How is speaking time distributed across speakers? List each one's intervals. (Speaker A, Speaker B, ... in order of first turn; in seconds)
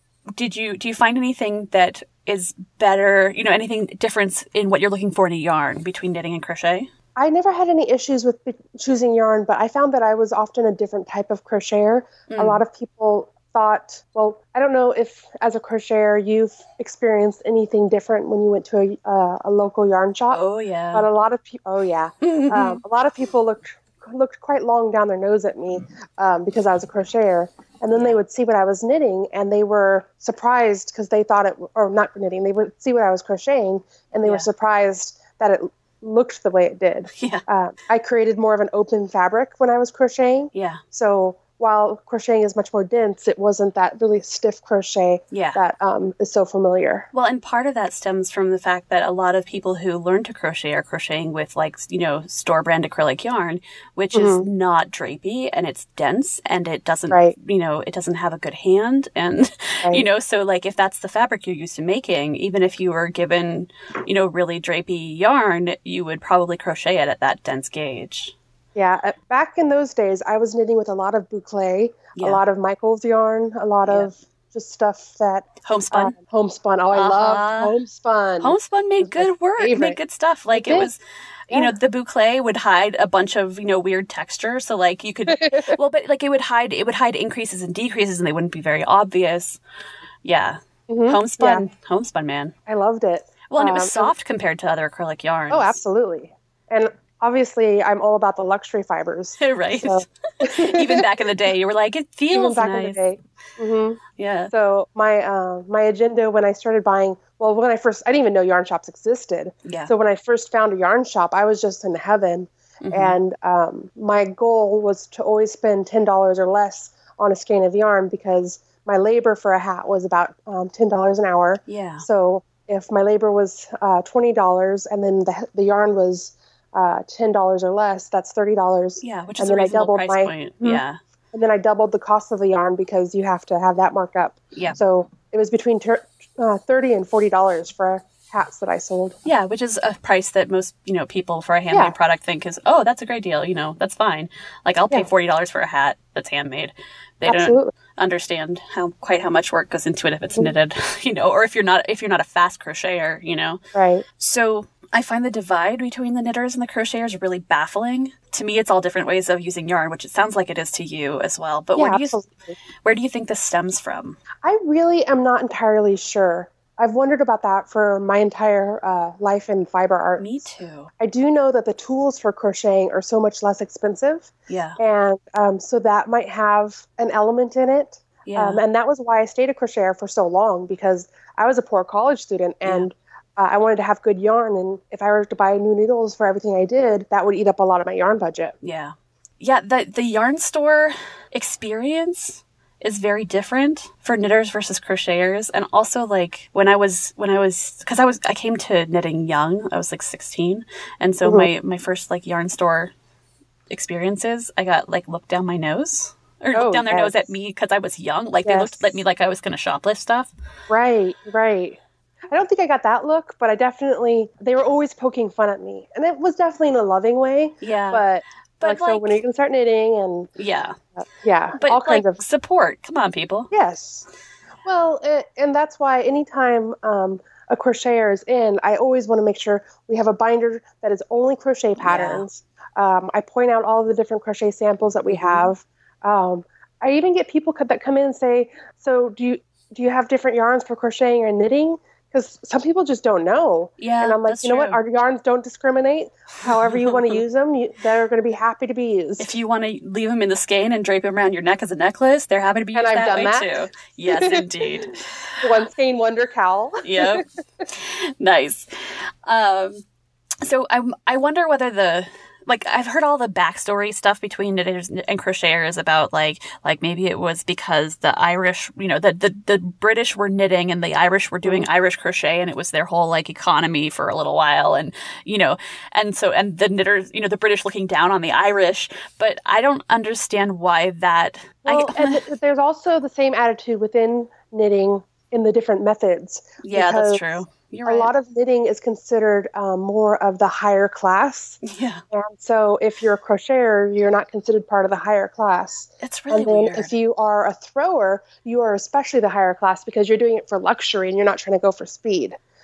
Speaker A: 0.4-6.9, 12.3-12.6, 20.3-21.1, 22.2-22.8, 37.1-37.4, 40.5-40.8, 45.3-45.6, 47.1-68.3, 72.2-72.4, 75.6-76.2, 76.9-77.7, 78.4-89.6, 90.2-92.5, 93.5-95.8, 99.4-103.0, 104.2-104.5, 109.7-109.9, 112.8-113.2, 121.7-122.0, 129.0-131.0, 139.2-153.6, 154.2-162.2, 162.8-164.2, 170.2-170.9, 174.5-174.8, 178.2-178.6, 188.6-202.9, 203.7-210.3, 217.6-218.0, 218.6-219.2, 220.4-220.8, 221.6-223.5, 231.8-232.2, 235.1-235.5, 243.8-244.8, 246.4-247.2, 249.2-255.0, 256.8-258.7, 259.2-259.8, 260.4-282.2, 286.6-288.1, 291.6-292.0, 296.0-296.9
Speaker B: 7.2-20.4, 20.9-47.1, 54.1-54.5, 57.1-57.4, 68.8-80.0, 80.5-80.9, 85.3-85.7, 90.9-91.7, 92.7-94.1, 95.5-101.1, 102.3-104.0, 104.5-139.2, 147.3-147.7, 153.7-154.1, 161.8-162.6, 164.4-188.6, 201.2-201.5, 206.5-207.3, 208.4-209.0, 210.7-220.3, 221.2-222.2, 223.5-224.1, 224.7-249.3, 252.7-254.5, 255.4-257.2, 281.7-287.2, 287.9-291.6, 292.1-302.4